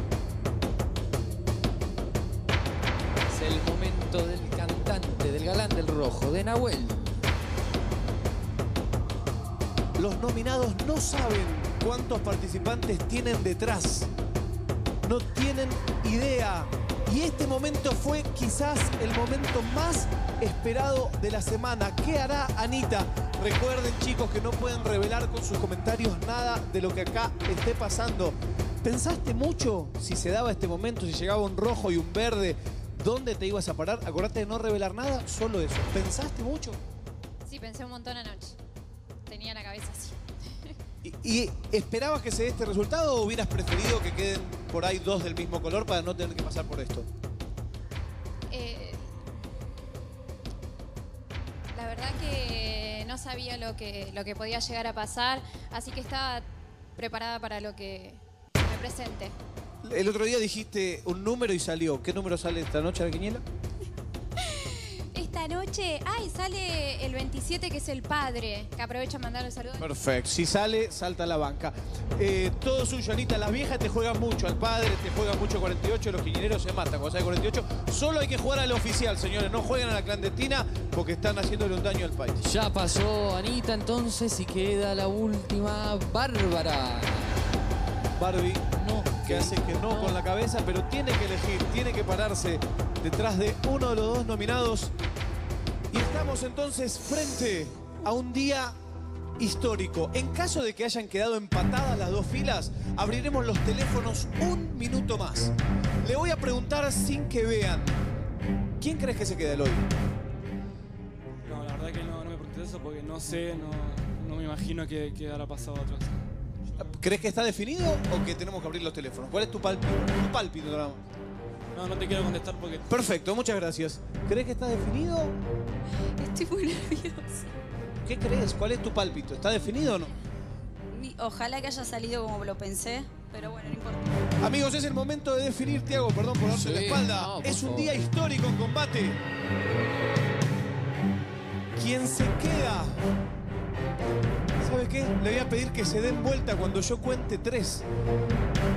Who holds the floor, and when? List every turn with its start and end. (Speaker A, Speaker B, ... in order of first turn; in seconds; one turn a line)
Speaker A: 3.3-7.2
Speaker B: 10.0-14.1
Speaker B: 15.0-36.8
Speaker C: 37.5-38.6
Speaker C: 39.3-40.2
Speaker B: 41.0-47.1
Speaker C: 48.5-49.2
Speaker C: 51.7-59.4
Speaker B: 59.8-63.4
Speaker C: 64.4-69.9
Speaker B: 69.8-82.4
Speaker A: 82.4-87.4
Speaker B: 88.2-88.7
Speaker A: 88.7-90.2
Speaker B: 89.2-94.9
Speaker B: 95.9-98.8
Speaker B: 99.4-108.0
Speaker B: 108.8-109.9
Speaker D: 111.4-116.2
Speaker B: 116.8-121.0
Speaker D: 121.7-122.9
Speaker B: 122.9-125.4
Speaker E: 126.2-127.5
Speaker B: 128.0-130.1
Speaker E: 130.9-134.2
Speaker B: 134.4-139.2
Speaker A: 136.5-138.0
Speaker B: 141.8-143.0
Speaker B: 144.6-147.8